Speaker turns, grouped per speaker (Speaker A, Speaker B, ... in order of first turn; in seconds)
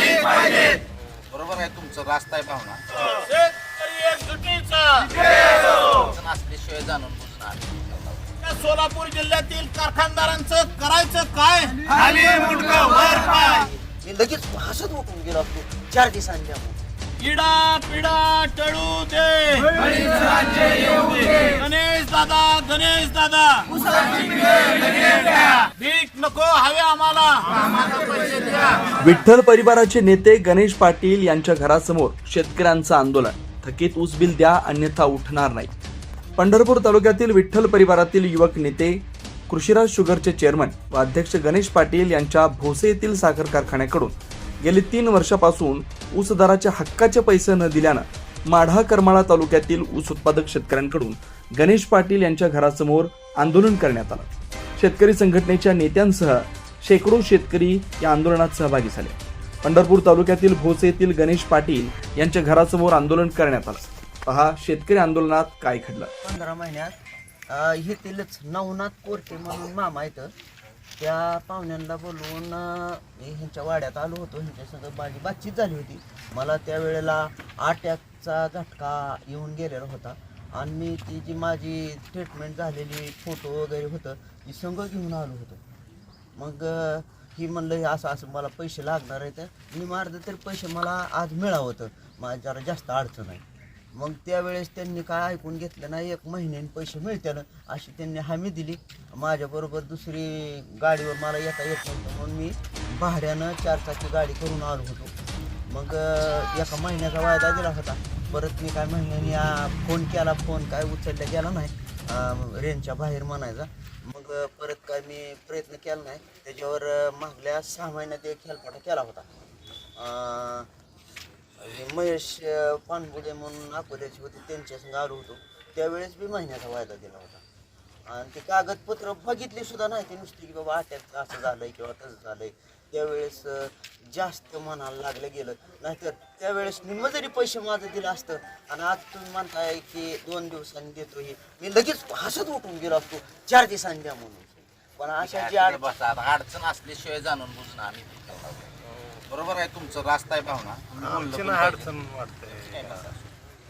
Speaker A: 1.3-2.8, 5.2-8.3, 145.2-148.7, 149.3-153.1
Speaker B: 3.0-5.1, 8.4-13.7, 17.2-23.8, 24.5-28.7
Speaker C: 13.4-16.8, 66.2-66.9, 67.5-70.3, 71.0-85.6, 86.4-93.4, 94.0-105.1, 105.7-119.3, 120.0-120.7, 121.6-127.4, 128.1-145.9
Speaker D: 29.0-35.7, 36.4-54.3, 54.8-66.1